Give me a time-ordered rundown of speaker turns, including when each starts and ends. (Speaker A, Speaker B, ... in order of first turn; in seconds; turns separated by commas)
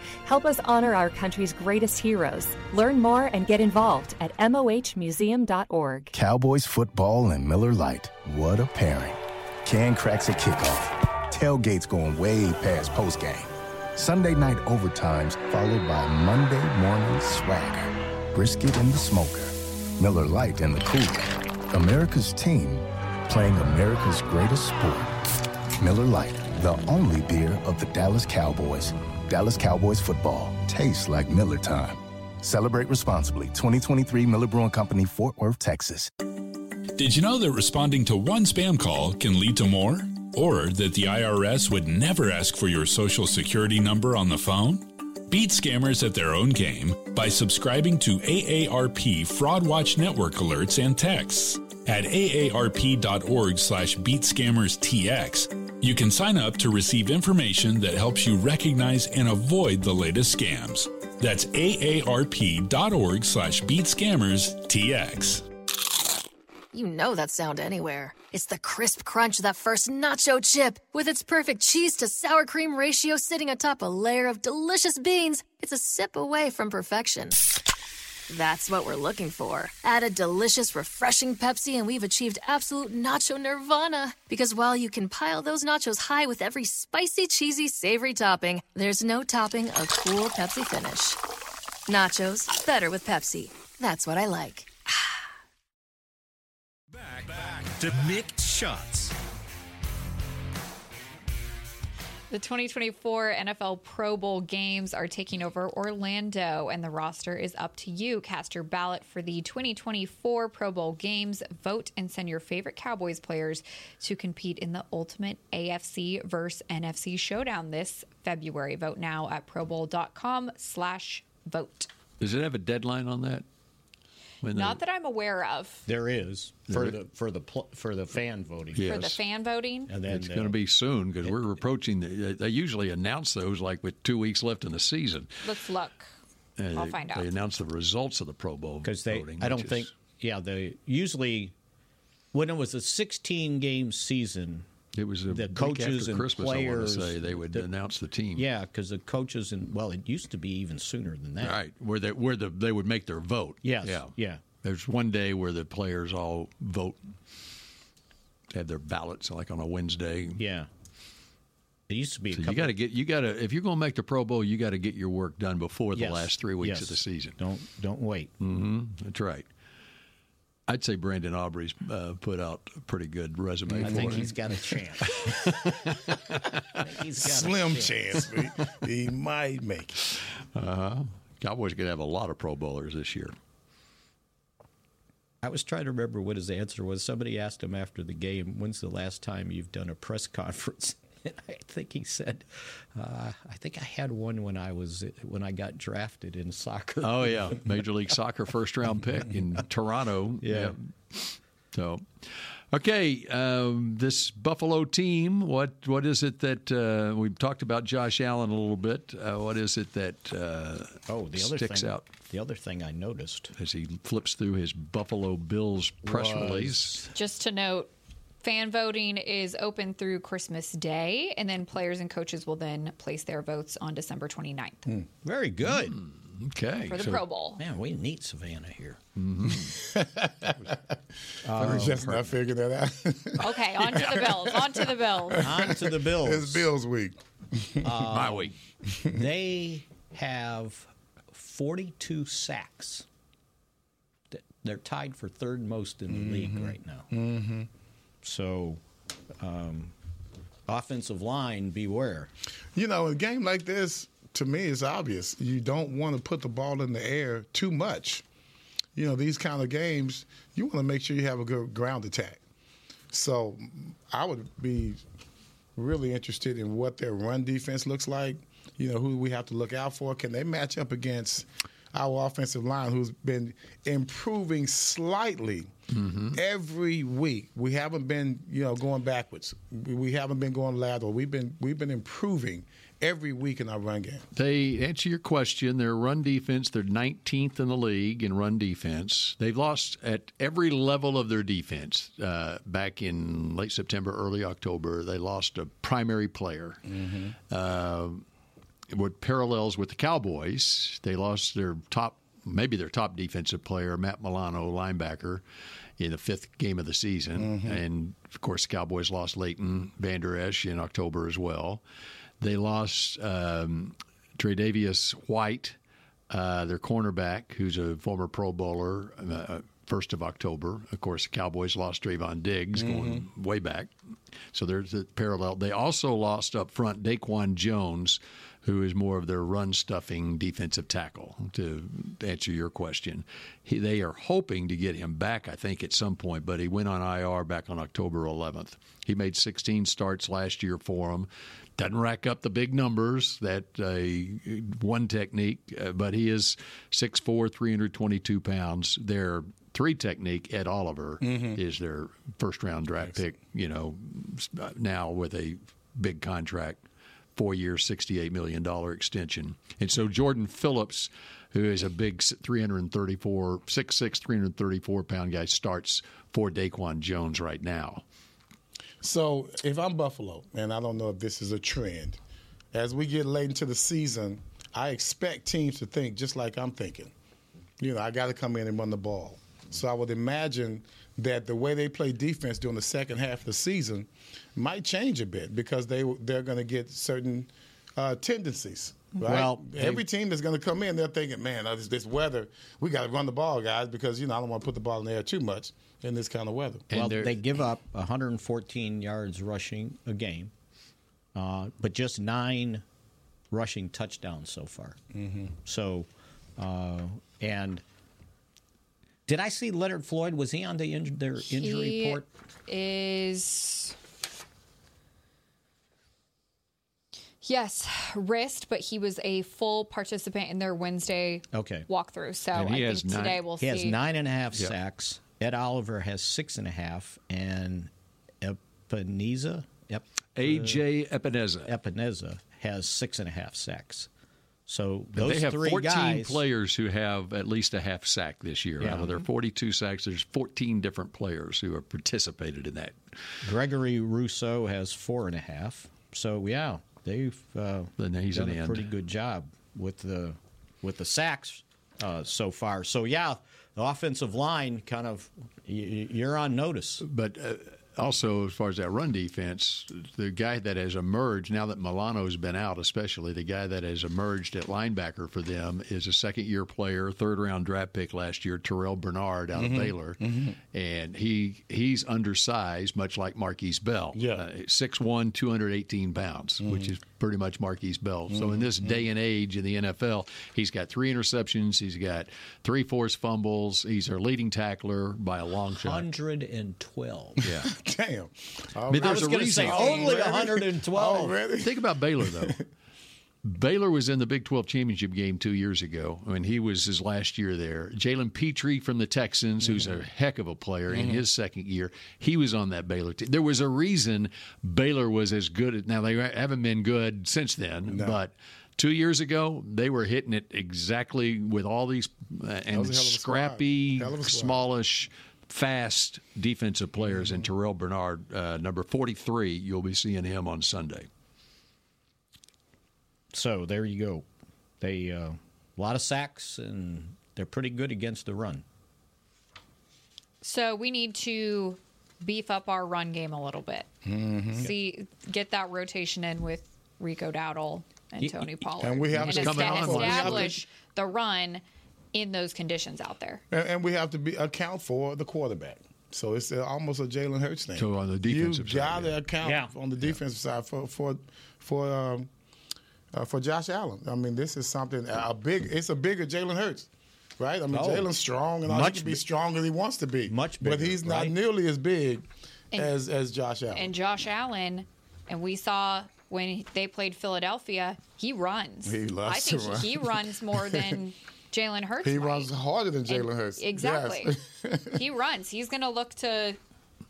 Speaker A: 0.2-6.1, Speaker B: 6.1-25.2, Speaker B: 25.8-36.1, Speaker C: 36.9-65.5, Speaker D: 66.7-77.4, Speaker D: 78.3-91.2, Speaker D: 91.9-94.7, Speaker E: 96.9-99.1, Speaker F: 102.3-121.9, Speaker G: 122.2-123.4, Speaker G: 124.4-124.8, Speaker F: 124.5-125.8, Speaker H: 125.8-129.0, Speaker G: 126.7-127.0, Speaker G: 128.8-129.2, Speaker F: 128.9-129.9, Speaker H: 129.9-130.6, Speaker G: 130.1-135.4, Speaker F: 135.4-136.1, Speaker G: 136.6-139.9, Speaker F: 136.7-137.3, Speaker H: 138.8-141.5, Speaker H: 142.3-144.7, Speaker G: 144.9-148.5, Speaker H: 145.3-147.7, Speaker H: 148.3-151.6, Speaker G: 151.4-157.1, Speaker H: 153.6-154.4, Speaker G: 158.5-160.4, Speaker H: 160.4-160.7, Speaker H: 161.9-162.7, Speaker G: 162.3-167.3, Speaker H: 165.9-168.3, Speaker G: 168.4-169.5, Speaker G: 170.7-174.3, Speaker H: 173.8-175.2, Speaker I: 173.8-174.2, Speaker G: 175.1-176.4, Speaker H: 176.7-178.0, Speaker I: 177.2-180.0, Speaker G: 180.2-183.3, Speaker H: 185.4-197.7, Speaker G: 197.0-212.1, Speaker H: 200.4-200.7, Speaker H: 211.1-213.5, Speaker G: 213.6-217.0, Speaker H: 216.0-217.1, Speaker F: 217.1-224.9, Speaker H: 225.2-226.0, Speaker G: 225.6-227.2, Speaker F: 226.9-227.6, Speaker H: 227.6-229.0, Speaker G: 229.2-229.8, Speaker I: 229.5-230.9, Speaker H: 231.4-232.1, Speaker I: 231.5-238.1, Speaker G: 231.6-232.3, Speaker F: 233.4-235.5, Speaker H: 235.4-236.7, Speaker H: 237.8-243.1, Speaker G: 238.1-238.5, Speaker H: 244.3-247.1, Speaker I: 246.1-247.7, Speaker H: 248.2-248.8, Speaker H: 249.4-249.9, Speaker H: 250.7-252.3, Speaker I: 252.7-258.2, Speaker I: 258.9-262.4, Speaker I: 263.1-265.0, Speaker I: 265.8-275.7, Speaker G: 275.9-276.4, Speaker I: 276.3-284.2, Speaker G: 284.3-296.8, Speaker I: 296.9-297.3, Speaker G: 297.5-298.2, Speaker G: 298.9-305.4, Speaker G: 306.0-311.8, Speaker I: 307.4-307.8, Speaker G: 312.4-315.8, Speaker G: 316.3-323.9, Speaker I: 322.8-323.2, Speaker G: 324.5-356.8, Speaker I: 351.2-351.6, Speaker G: 357.4-368.0, Speaker I: 369.0-372.2, Speaker I: 372.7-377.1, Speaker I: 377.8-396.9, Speaker H: 389.2-390.0, Speaker G: 396.9-397.4, Speaker H: 396.9-400.5, Speaker H: 401.3-402.8, Speaker H: 403.5-405.0, Speaker I: 405.1-405.5, Speaker H: 405.6-407.8, Speaker H: 409.3-412.2, Speaker F: 411.4-413.9, Speaker F: 417.4-424.0, Speaker H: 421.5-421.9, Speaker G: 422.5-423.4, Speaker H: 423.6-427.9, Speaker H: 428.4-430.8, Speaker G: 430.4-431.7, Speaker H: 431.6-434.1, Speaker H: 434.7-436.4, Speaker G: 435.2-443.0, Speaker H: 438.8-439.2, Speaker H: 443.4-457.0, Speaker G: 448.0-448.9, Speaker G: 457.0-470.2, Speaker I: 469.5-470.6, Speaker G: 470.7-486.1, Speaker I: 474.1-474.5, Speaker I: 476.6-476.9, Speaker I: 478.3-479.0, Speaker H: 485.8-487.4, Speaker G: 487.4-487.7, Speaker I: 487.4-492.6, Speaker G: 488.9-490.3, Speaker H: 489.0-491.4, Speaker G: 491.6-492.6, Speaker G: 493.4-521.1, Speaker I: 500.9-501.2, Speaker I: 507.9-508.2, Speaker I: 512.7-514.6, Speaker I: 517.1-517.5, Speaker H: 523.3-524.2, Speaker H: 524.8-528.6, Speaker F: 530.4-533.9, Speaker I: 534.0-534.7, Speaker F: 534.5-543.4, Speaker H: 538.2-538.5, Speaker I: 538.8-540.6, Speaker G: 539.1-540.5, Speaker I: 543.5-552.3, Speaker G: 547.8-549.1, Speaker H: 549.4-549.7, Speaker I: 553.1-563.9, Speaker H: 557.7-558.1, Speaker H: 558.6-559.2, Speaker H: 560.3-561.4, Speaker F: 563.7-572.5, Speaker I: 568.8-571.0, Speaker I: 572.0-575.0, Speaker F: 573.0-574.4, Speaker F: 574.9-576.6